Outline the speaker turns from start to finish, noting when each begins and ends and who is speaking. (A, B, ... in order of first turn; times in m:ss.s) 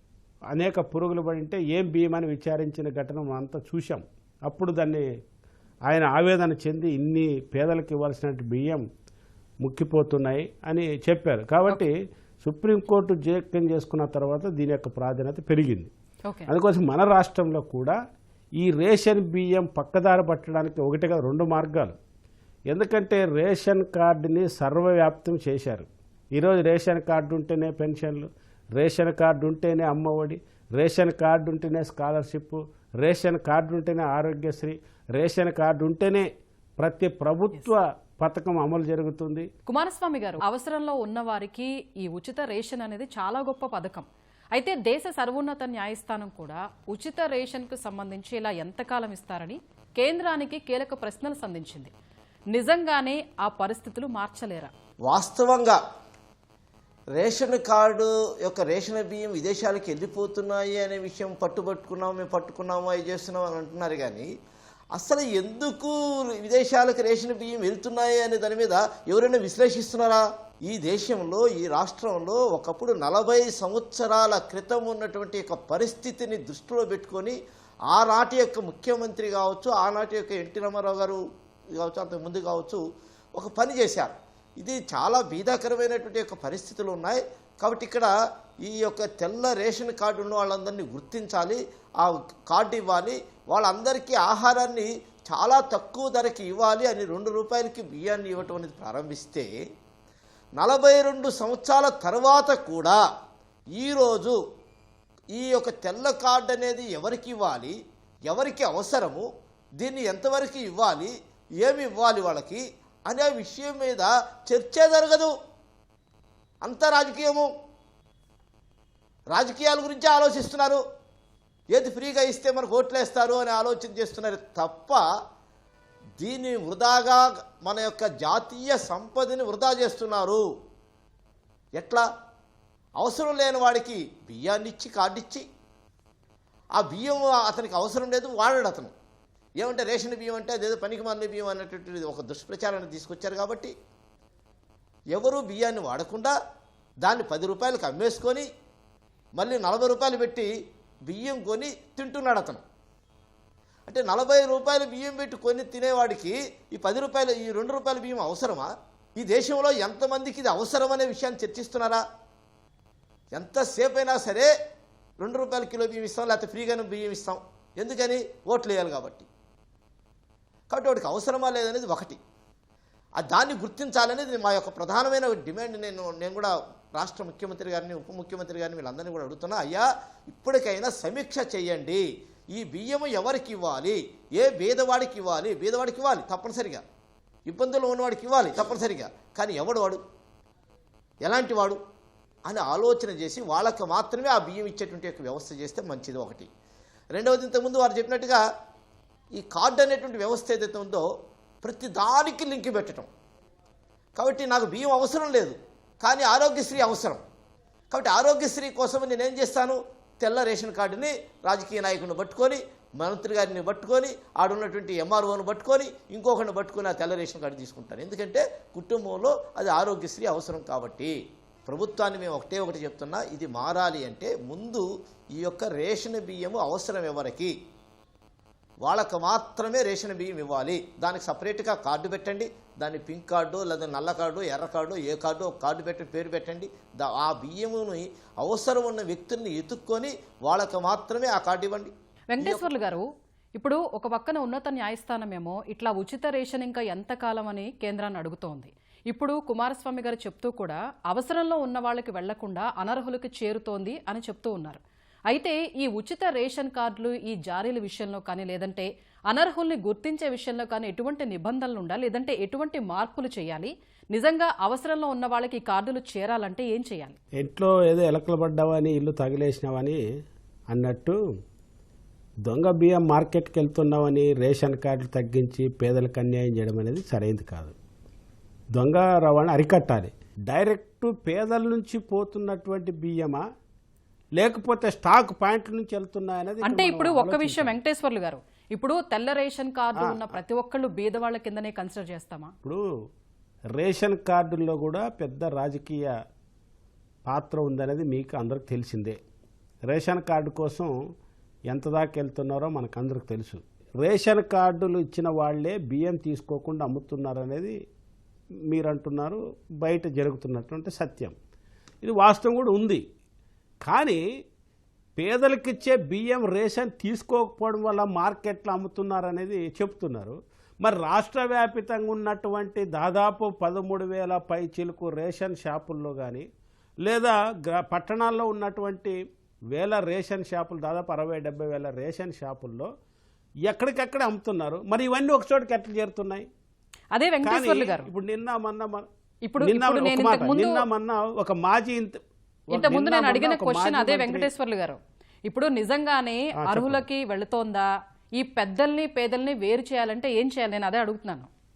0:00.5-0:05.1 A
0:05.9-0:08.8 A
0:09.6-0:15.9 A
0:16.5-0:18.0 A
0:18.6-0:22.0 A
0:22.7-0:36.3 A
0:36.8-0:39.5 A
0:39.7-0:51.9 B
0:52.5-0:54.7 B
0:55.1-0:55.8 C
0:57.2-1:04.3 C
1:05.0-1:17.4 C
1:17.9-1:21.2 C
1:21.8-1:22.8 C
1:23.4-1:28.1 C
1:28.6-1:39.5 C
1:40.6-1:43.0 C
1:43.8-1:44.4 C
1:45.3-1:47.8 C
1:48.3-1:49.3 C
1:49.8-1:55.3 C
1:56.6-1:57.5 C
1:59.3-2:00.8 C
2:01.7-2:05.0 C
2:06.2-2:10.4 C
2:11.8-2:12.0 C
2:13.0-2:15.4 C
2:16.8-2:18.9 C
2:19.6-2:23.7 C
2:25.2-2:26.4 C
2:27.0-2:28.5 C
2:29.4-2:30.5 C
2:31.1-2:32.6 C
2:33.9-2:42.0 C
2:43.3-2:44.5 C
2:45.2-2:49.3 C
2:50.7-2:52.2 C
2:53.2-3:02.0 C
3:02.5-3:06.8 C
3:07.5-3:10.0 C
3:11.2-3:11.8 C
3:12.5-3:16.5 C
3:17.2-3:18.4 C
3:19.4-3:21.1 C
3:21.6-3:23.1 C
3:24.2-3:27.2 C
3:27.9-3:41.1 C
3:41.7-3:44.8 C
3:45.4-3:47.5 C
3:48.8-4:02.8 C
4:02.3-4:27.2 B
4:27.4-4:30.0 A
4:30.7-4:31.2 A
4:32.4-4:37.8 A
4:38.8-4:43.4 A
4:44.4-4:47.8 A
4:46.6-4:52.5 B
4:53.8-4:56.1 A
4:57.3-4:59.2 A
4:59.9-5:00.9 A
5:01.7-5:07.8 A
5:08.7-5:11.3 A
5:12.0-5:13.0 A
5:13.9-5:14.2 A
5:15.2-5:26.4 A
5:27.0-5:29.2 A
5:29.7-5:32.9 A
5:33.7-5:36.5 A
5:37.1-5:38.1 B
5:37.4-5:39.1 A
5:39.5-5:40.8 B
5:39.6-5:42.2 A
5:42.7-5:44.5 A
5:42.7-5:51.5 B
5:46.6-5:47.0 A